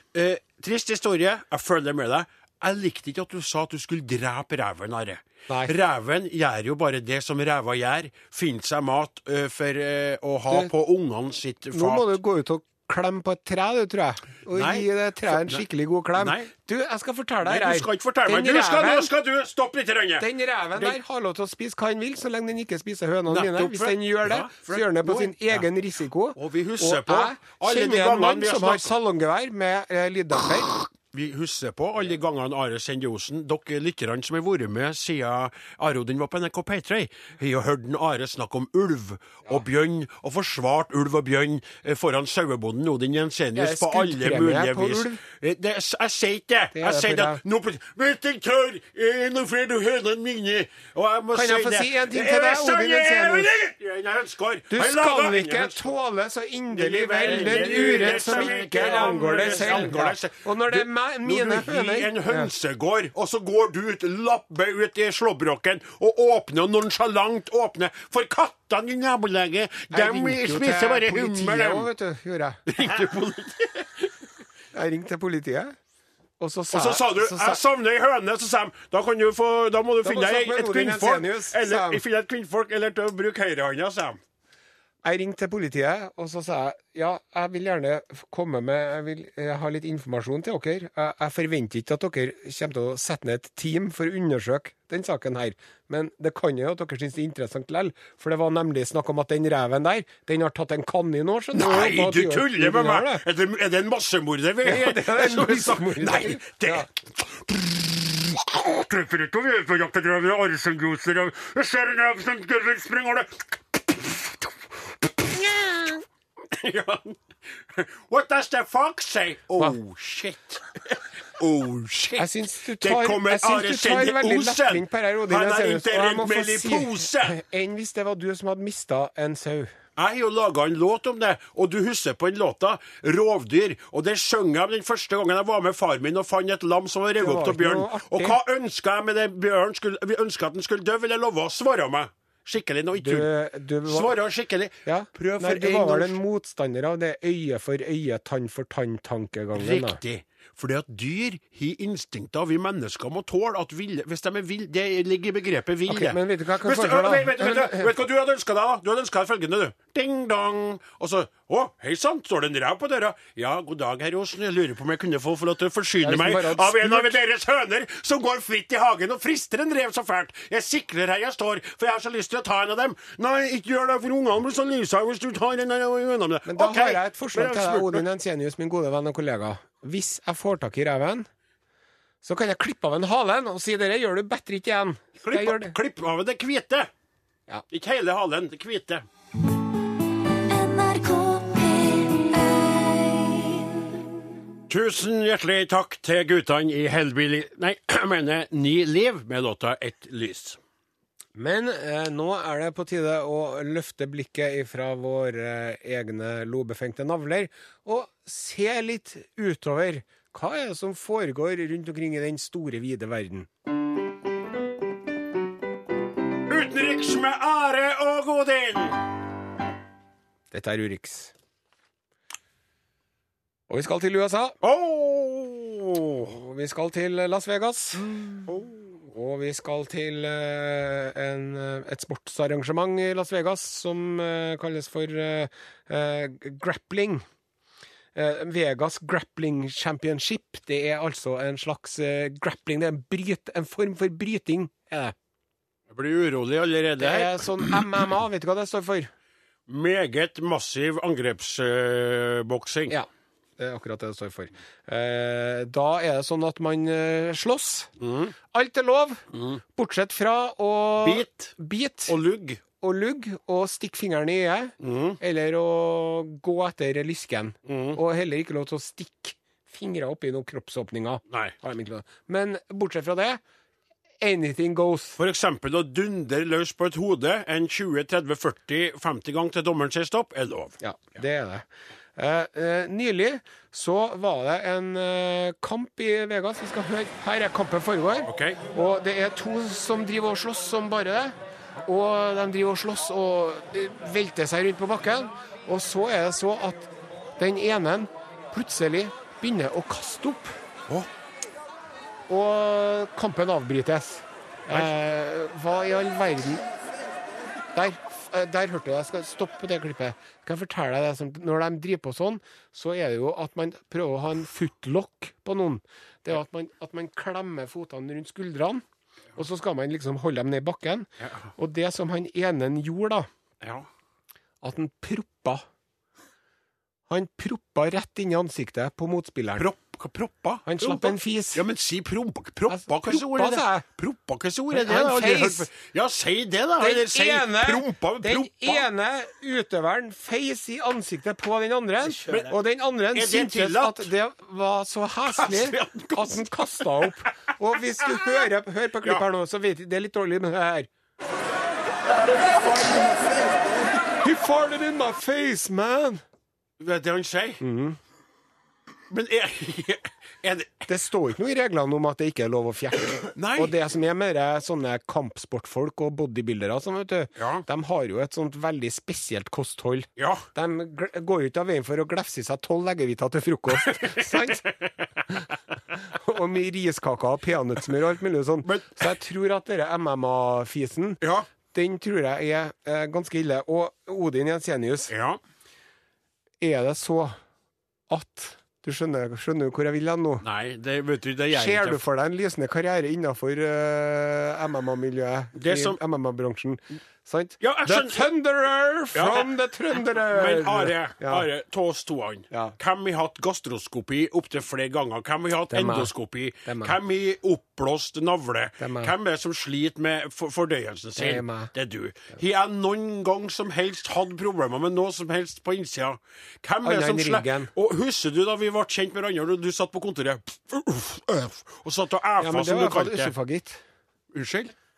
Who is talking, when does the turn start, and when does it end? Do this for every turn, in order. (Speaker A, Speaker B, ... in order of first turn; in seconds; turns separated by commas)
Speaker A: 0.1-12.2, Speaker B: 11.7-19.1, Speaker A: 14.5-15.6, Speaker A: 16.2-16.5, Speaker A: 17.4-21.0, Speaker B: 20.2-30.7, Speaker A: 23.3-25.7, Speaker A: 26.4-28.9, Speaker A: 30.7-55.9, Speaker B: 43.5-45.2, Speaker B: 46.7-47.4, Speaker B: 51.3-53.5, Speaker B: 54.7-62.5, Speaker A: 56.7-71.9, Speaker B: 69.9-72.6, Speaker A: 72.7-74.1, Speaker B: 74.7-75.8, Speaker B: 76.4-77.6, Speaker A: 76.7-84.2, Speaker B: 80.0-82.0, Speaker B: 85.0-103.2, Speaker A: 101.5-116.0, Speaker B: 104.6-106.8, Speaker A: 116.5-127.4, Speaker B: 122.2-129.7, Speaker A: 129.9-143.3, Speaker B: 137.2-138.4, Speaker B: 142.9-144.1, Speaker A: 143.9-146.2, Speaker B: 144.8-150.0, Speaker A: 149.5-178.0, Speaker B: 155.9-157.9, Speaker B: 166.0-167.2, Speaker B: 176.5-181.3, Speaker B: 182.2-185.7, Speaker A: 185.2-186.9, Speaker A: 187.7-189.0, Speaker C: 190.5-194.0, Speaker A: 194.7-200.6, Speaker B: 201.3-213.5, Speaker A: 216.5-219.0, Speaker B: 220.5-221.3, Speaker B: 223.7-224.6, Speaker A: 224.6-226.3, Speaker B: 226.3-237.2, Speaker A: 228.1-228.7, Speaker B: 238.1-245.1, Speaker A: 245.9-247.8, Speaker B: 247.0-249.1, Speaker A: 249.7-252.9, Speaker B: 253.6-257.9, Speaker A: 258.0-258.3, Speaker B: 258.5-259.2, Speaker B: 259.7-262.1, Speaker A: 261.0-261.5, Speaker A: 262.1-262.6, Speaker B: 262.8-273.4, Speaker A: 264.8-265.2, Speaker A: 267.6-268.0, Speaker A: 271.3-271.5, Speaker B: 274.2-275.2, Speaker A: 275.2-280.8, Speaker B: 280.8-300.6, Speaker A: 288.2-288.6, Speaker B: 302.3-306.6, Speaker B: 307.7-318.8, Speaker B: 319.4-323.3, Speaker A: 321.2-321.5, Speaker A: 323.6-323.9, Speaker B: 324.6-325.6, Speaker B: 327.1-329.6, Speaker A: 329.6-338.8, Speaker B: 330.7-331.6, Speaker B: 332.7-333.8, Speaker B: 334.7-335.7, Speaker B: 336.8-350.9, Speaker A: 342.1-342.6, Speaker A: 343.1-344.1, Speaker A: 345.3-346.5, Speaker B: 354.2-356.2, Speaker A: 356.8-357.6, Speaker B: 357.6-358.0, Speaker A: 359.1-360.9, Speaker B: 360.9-374.7, Speaker A: 363.3-363.7, Speaker A: 367.4-367.6, Speaker A: 370.2-370.4, Speaker A: 373.9-374.9, Speaker B: 375.9-385.1, Speaker A: 378.6-379.0, Speaker A: 385.1-385.4, Speaker B: 386.6-387.4, Speaker B: 388.1-390.4, Speaker A: 390.4-392.0, Speaker B: 391.5-401.4, Speaker A: 395.5-396.0, Speaker A: 397.6-398.3, Speaker A: 399.1-399.5, Speaker A: 400.1-423.3, Speaker B: 402.5-402.8, Speaker B: 405.7-406.1, Speaker B: 406.6-406.9, Speaker B: 408.8-409.1, Speaker B: 411.2-411.7, Speaker B: 416.8-417.7, Speaker B: 422.4-423.8, Speaker A: 424.3-424.7